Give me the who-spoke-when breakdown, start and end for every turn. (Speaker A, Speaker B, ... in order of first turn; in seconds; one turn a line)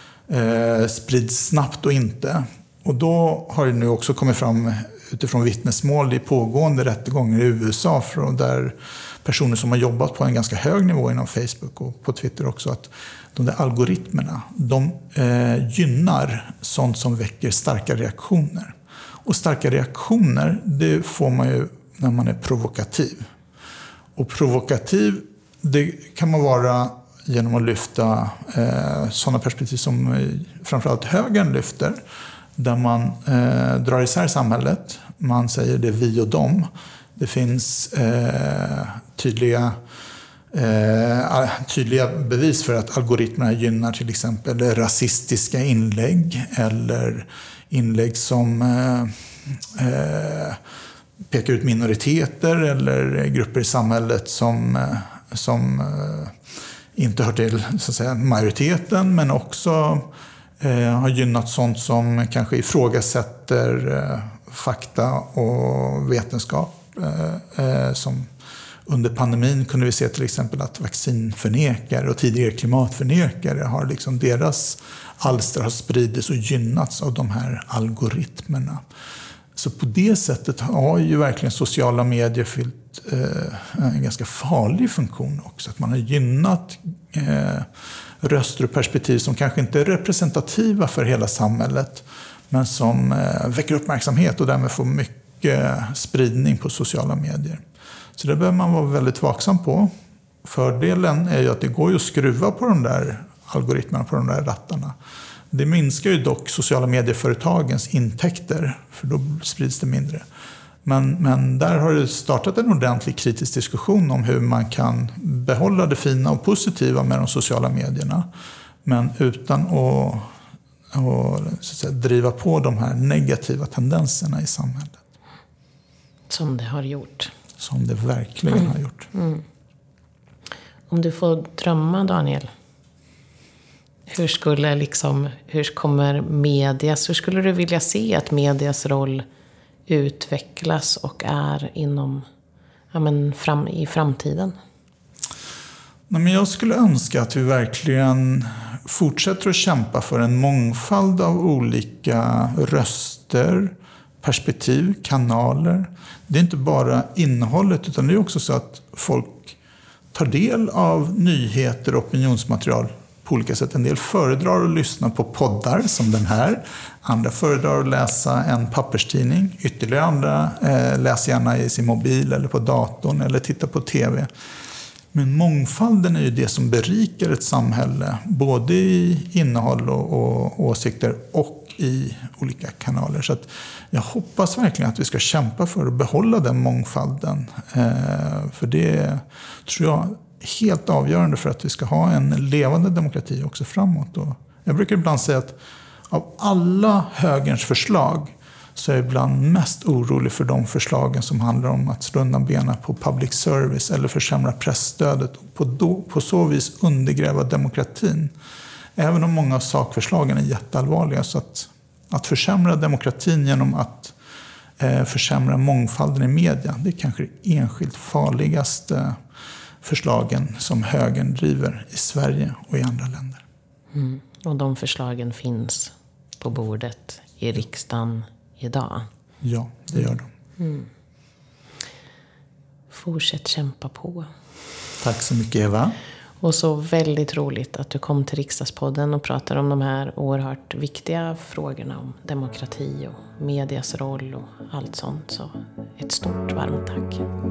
Speaker A: 0.3-23.3
Speaker A: 24.2-32.0
Speaker A: 32.6-39.8
Speaker A: 40.5-50.6
Speaker A: 51.3-56.4
Speaker A: 57.0-60.1
Speaker A: 60.6-68.3
Speaker A: 68.9-78.8
Speaker A: 79.5-87.7
Speaker A: 88.2-97.6
Speaker A: 98.2-99.9
Speaker A: 100.4-105.0
Speaker A: 105.5-110.2
Speaker A: 110.8-118.3
Speaker A: 118.8-120.3
Speaker A: 120.9-125.0
Speaker B: 126.3-127.3
Speaker A: 127.6-129.1
Speaker B: 129.1-129.4
Speaker B: 130.9-132.5
Speaker B: 134.1-139.2
Speaker B: 139.9-142.3
Speaker B: 142.9-144.6
Speaker A: 146.1-159.6
Speaker A: 160.1-174.3
Speaker A: 175.1-195.6
Speaker A: 196.1-208.3
Speaker A: 209.0-214.2
Speaker A: 214.8-219.2
Speaker A: 219.8-223.4
Speaker B: 223.9-229.1
Speaker A: 229.4-230.3
Speaker B: 230.6-230.9
Speaker B: 232.9-234.3
Speaker A: 235.0-236.0
Speaker B: 236.4-247.2